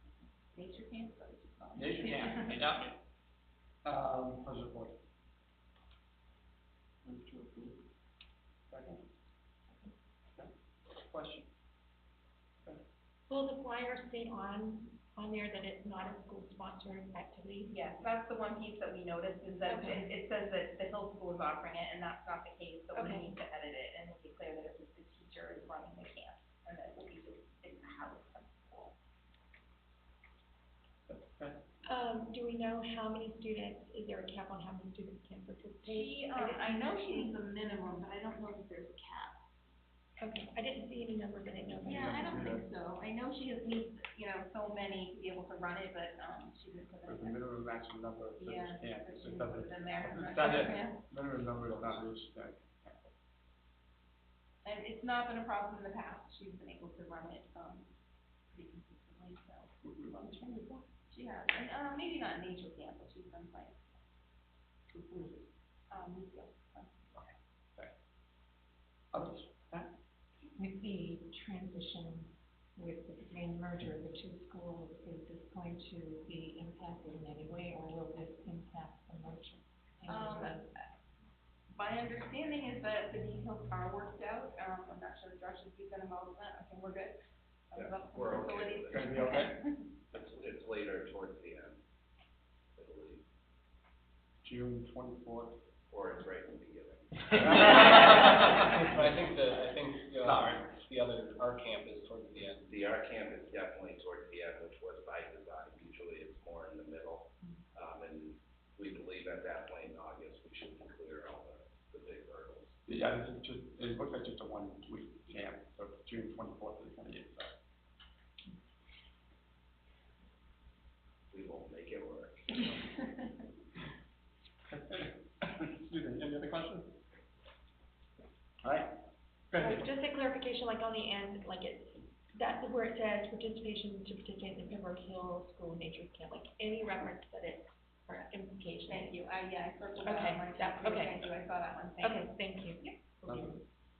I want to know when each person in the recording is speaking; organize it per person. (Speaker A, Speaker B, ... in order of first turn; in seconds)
Speaker A: 0.5-2.5, 17.7-28.9, 35.8-39.4, 41.8-47.4, 48.4-51.0, 54.6-57.9, 58.5-59.8, 61.1-64.0, 65.1-65.3, 65.9-67.0, 80.1-80.6, 81.7-87.2, 87.7-89.8, 138.9-142.9
Speaker B: 1.8-3.0, 3.8-4.9, 7.0-7.8, 8.7-9.0, 10.3-11.5, 31.1-31.6, 41.8-42.6, 47.0-53.1, 59.8-60.9, 67.1-67.9, 69.1-69.9, 88.9-89.5, 94.4-95.6, 97.6-98.0, 100.2-100.6, 112.9-117.5, 124.7-126.9, 128.6-128.9, 129.5-129.9, 143.2-143.6
Speaker C: 13.3-17.7, 19.6-20.1, 22.9-23.3, 31.9-37.3, 40.2-42.6, 129.5-139.2, 140.0-141.3, 142.0-143.6
Speaker D: 70.6-80.7
Speaker E: 87.7-89.1, 90.1-91.8, 92.8-93.2, 95.9-97.9, 102.7-112.7, 121.3-122.7
Speaker F: 97.5-102.7